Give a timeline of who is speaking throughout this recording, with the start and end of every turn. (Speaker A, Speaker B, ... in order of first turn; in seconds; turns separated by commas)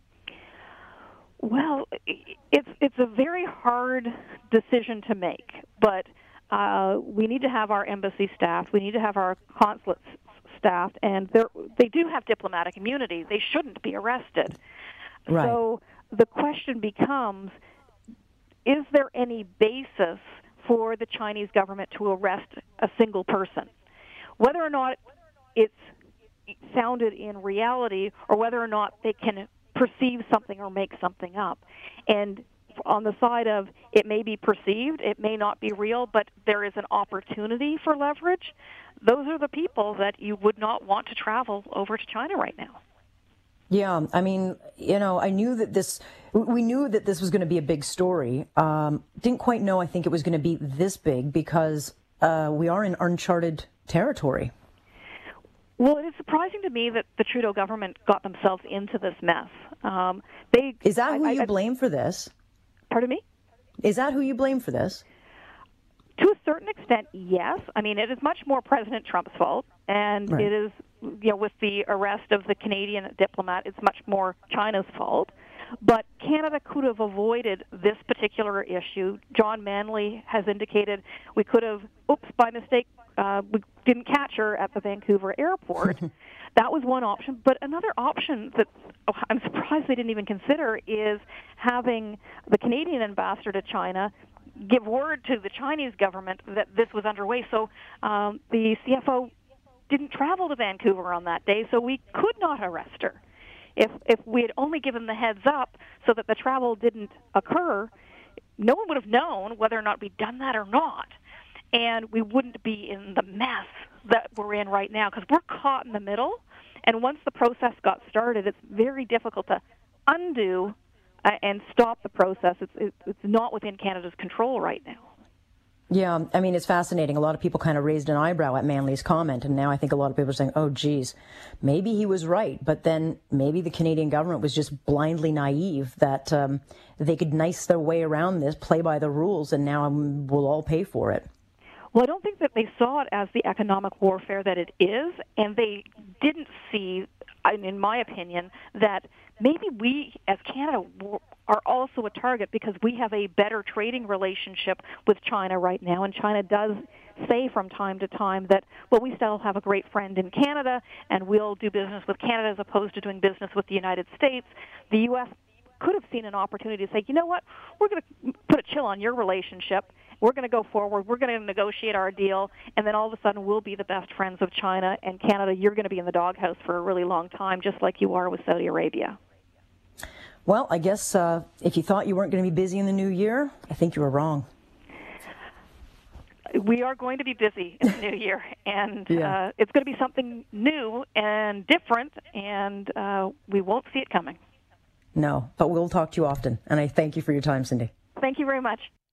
Speaker A: 1.4-14.6, Speaker B: 15.3-15.6, Speaker A: 15.3-17.6, Speaker A: 18.6-23.7, Speaker A: 24.4-25.0, Speaker A: 25.5-25.9, Speaker A: 26.6-42.8, Speaker B: 43.7-54.5, Speaker A: 55.8-61.5, Speaker B: 60.8-62.3, Speaker A: 62.9-63.2, Speaker B: 63.8-65.0, Speaker A: 66.2-99.3, Speaker A: 99.9-103.2, Speaker A: 103.8-107.9, Speaker A: 108.6-111.1, Speaker A: 111.7-125.1, Speaker B: 125.9-141.2, Speaker A: 141.9-179.2, Speaker B: 180.4-184.5, Speaker A: 186.5-194.4, Speaker B: 189.1-189.3, Speaker B: 195.1-197.9, Speaker A: 198.2-198.9